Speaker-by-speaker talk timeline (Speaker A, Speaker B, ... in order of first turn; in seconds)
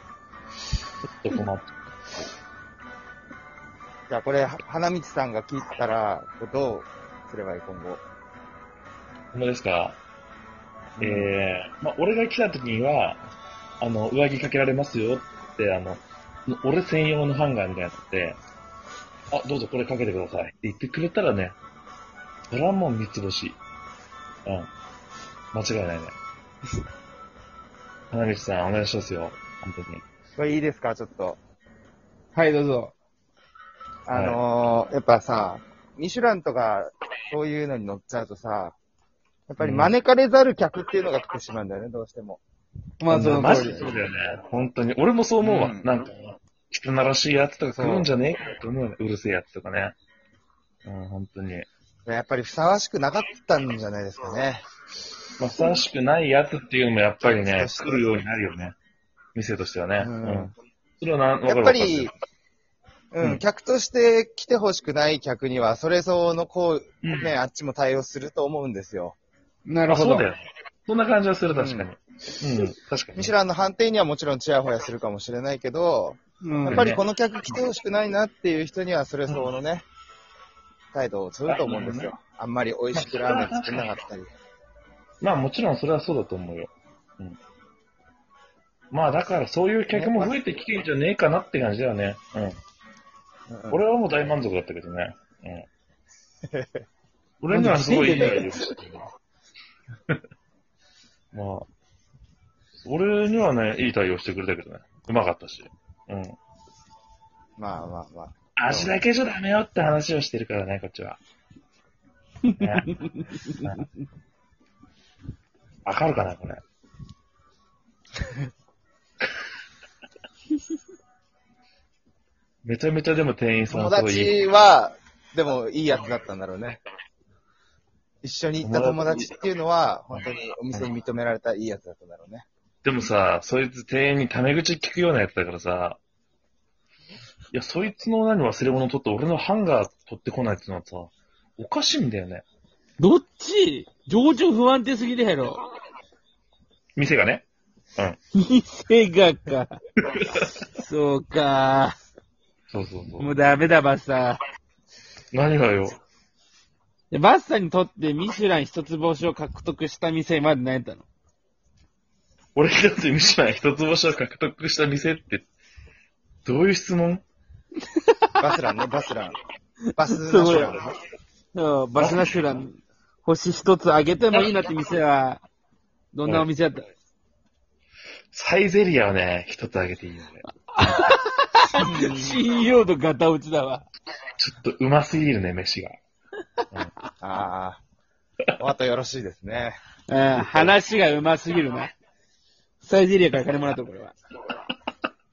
Speaker A: 1.1-1.7, 9.3-10.0, 11.0-13.2, 13.8-18.4, 19.3-21.6, 22.5-23.6, 25.5-26.1, 28.1-30.0, 34.1-34.4, 39.6-39.9, 43.1-49.9, 50.8-51.7, 55.4-58.8, 59.3-62.1, 67.0-67.3, 69.9-73.3, 76.6-77.0, 81.5-82.1, 82.9-83.9, 85.2-87.4, 88.9-92.5, 93.7-95.7, 97.4-98.9, 101.3-101.7, 102.8-106.4, 108.5-111.2, 112.6-113.0, 113.6-113.8, 115.8-116.6, 122.6-124.4, 128.6-129.3, 132.8-136.0, 137.5-142.4, 147.0-148.2, 150.0-150.5, 152.7-153.4, 155.3-155.9, 162.6-165.4, 166.4-167.2, 171.9-172.6, 178.3-180.5, 184.4-186.0
Speaker B: 4.1-8.0, 11.0-11.3, 30.4-31.4, 34.1-38.8, 39.5-42.4, 43.5-43.9, 45.4-45.9, 47.7-48.1, 52.1-54.6, 57.2-58.1, 60.0-60.5, 61.4-62.1, 63.1-69.2, 71.5-71.9, 73.1-79.8, 80.9-84.3, 89.9-90.3, 93.5-93.8, 98.1-98.6, 107.6-109.0, 123.7-126.8, 128.2-132.4, 168.4-169.4, 169.9-170.9, 181.8-182.4, 187.2-187.8, 188.6-189.8, 190.3-190.7
Speaker C: 32.4-32.9, 43.0-43.9, 69.7-70.2, 76.4-76.7, 97.5-98.1, 112.5-113.1, 143.0-145.6, 148.4-149.8, 150.8-151.9, 153.2-154.4, 157.1-161.0, 168.0-168.3, 170.3-170.7, 171.5-175.4, 176.1-176.9, 180.7-183.8, 190.1-191.9, 192.8-194.2